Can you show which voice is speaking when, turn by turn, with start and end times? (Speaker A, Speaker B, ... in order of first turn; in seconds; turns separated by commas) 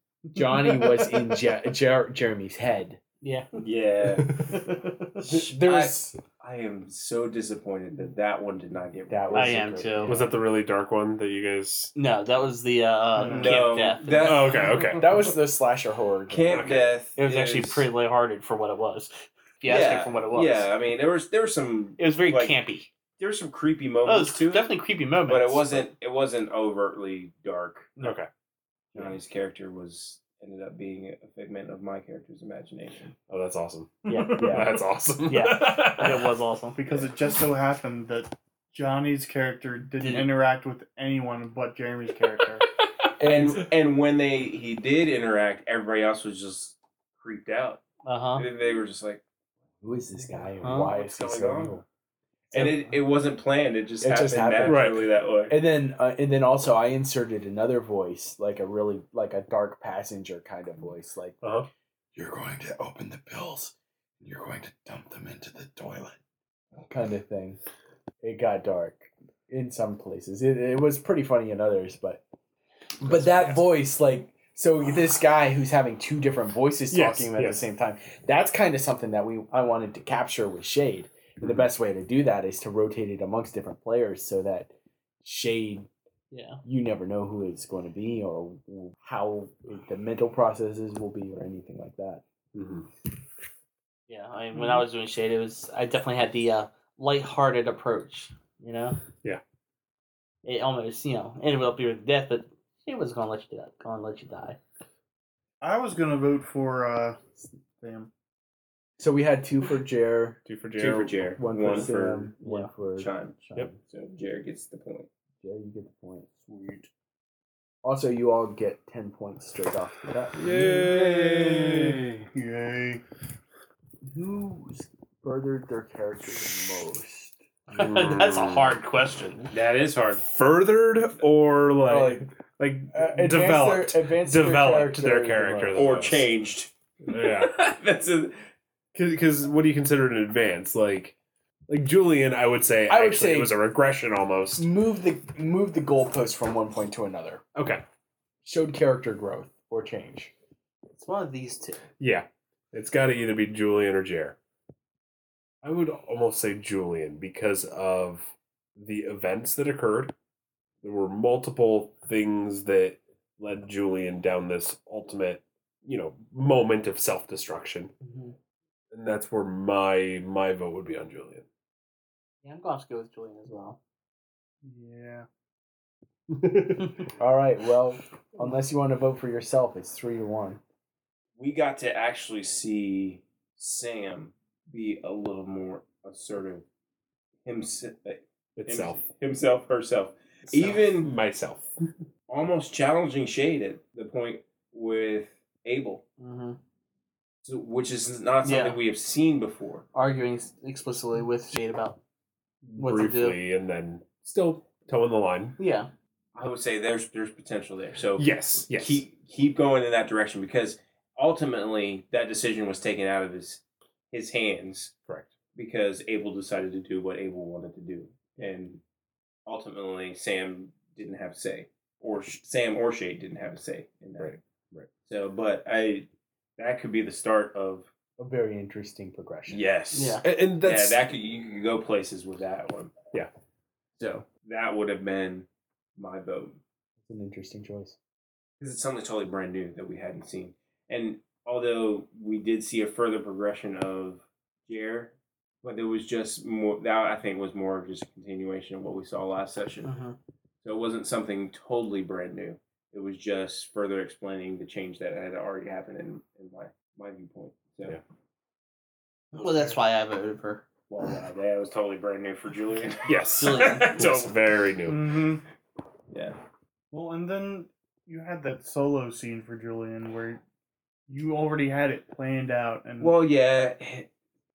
Speaker A: 0.3-3.0, Speaker B: 3.2-3.5, Speaker C: 3.6-4.5, Speaker A: 5.1-6.2, Speaker C: 5.2-9.8, Speaker A: 9.1-10.3, Speaker B: 9.3-10.2, Speaker D: 10.1-11.9, Speaker B: 11.9-14.8, Speaker E: 13.2-13.6, Speaker C: 13.2-14.7, Speaker D: 14.2-15.3, Speaker A: 14.9-16.7, Speaker C: 16.3-17.9, Speaker D: 16.5-16.9, Speaker B: 17.2-20.7, Speaker C: 19.6-22.6, Speaker B: 22.0-22.9, Speaker C: 23.2-24.7, Speaker B: 24.1-25.7, Speaker C: 25.2-28.0, Speaker D: 28.0-28.3, Speaker C: 28.9-33.1, Speaker D: 33.3-36.3, Speaker E: 34.0-34.7, Speaker A: 34.1-34.8, Speaker B: 35.2-36.8, Speaker E: 36.8-42.7, Speaker B: 40.0-40.3, Speaker A: 43.2-43.7, Speaker C: 43.3-47.8, Speaker B: 48.0-48.5, Speaker C: 48.4-49.2, Speaker A: 49.8-51.8, Speaker B: 50.6-50.9, Speaker C: 50.7-51.8, Speaker A: 52.5-52.8, Speaker C: 52.5-55.5, Speaker A: 54.0-54.9, Speaker D: 54.6-55.0, Speaker A: 55.5-61.4, Speaker D: 61.4-61.7, Speaker A: 62.1-66.2, Speaker A: 66.9-67.6, Speaker A: 68.2-72.2, Speaker A: 73.0-84.7, Speaker D: 73.0-73.7, Speaker D: 76.9-77.6, Speaker D: 81.4-81.7, Speaker A: 85.2-85.9, Speaker B: 86.3-86.6, Speaker A: 86.6-92.2, Speaker D: 92.5-92.9, Speaker B: 94.1-99.0, Speaker B: 100.4-104.6, Speaker E: 105.6-108.1, Speaker A: 109.0-110.4, Speaker D: 110.5-111.4, Speaker C: 110.8-112.3, Speaker A: 111.4-113.8, Speaker B: 112.4-112.7, Speaker C: 113.0-113.3, Speaker C: 113.9-115.1, Speaker A: 115.4-116.3, Speaker E: 116.5-116.9, Speaker A: 117.8-122.0, Speaker D: 120.4-122.3, Speaker E: 122.3-123.0, Speaker A: 124.0-127.4, Speaker B: 127.7-129.5, Speaker D: 127.7-128.8, Speaker C: 129.5-130.2, Speaker D: 130.2-136.3, Speaker A: 131.8-132.3, Speaker A: 132.9-135.9, Speaker C: 135.7-138.4, Speaker D: 137.1-137.5, Speaker D: 138.9-141.1, Speaker D: 141.7-144.6, Speaker A: 142.9-143.6, Speaker A: 144.6-147.4, Speaker D: 147.5-147.8, Speaker A: 148.4-150.3, Speaker B: 150.9-151.8, Speaker D: 152.0-154.3, Speaker D: 155.6-160.1, Speaker D: 160.8-167.9, Speaker B: 168.0-168.3, Speaker D: 168.9-171.4, Speaker B: 172.4-173.8, Speaker E: 174.6-175.3, Speaker D: 176.3-177.1, Speaker A: 177.2-180.6, Speaker C: 181.4-186.7, Speaker C: 187.4-191.1, Speaker D: 188.6-189.0, Speaker D: 190.5-191.7, Speaker C: 192.3-196.0, Speaker B: 196.2-196.6, Speaker C: 197.4-199.8, Speaker B: 198.4-198.8, Speaker B: 199.9-202.0, Speaker D: 202.6-205.6, Speaker B: 202.8-203.4, Speaker B: 205.6-205.9, Speaker C: 206.3-214.9, Speaker D: 208.2-209.0, Speaker C: 215.5-218.8, Speaker C: 219.4-224.4, Speaker D: 224.2-224.9, Speaker C: 225.0-227.9, Speaker A: 228.2-229.6, Speaker D: 229.5-231.0, Speaker C: 229.9-232.9, Speaker B: 229.9-230.2, Speaker C: 234.0-236.6, Speaker A: 237.1-238.0, Speaker C: 238.6-249.9, Speaker B: 249.8-250.2, Speaker C: 250.6-258.0, Speaker B: 259.3-260.6, Speaker C: 260.9-263.6, Speaker D: 263.1-265.3, Speaker B: 263.3-264.3, Speaker E: 264.8-265.4, Speaker C: 266.1-266.4, Speaker E: 266.9-270.4, Speaker E: 271.1-273.1, Speaker C: 273.0-274.1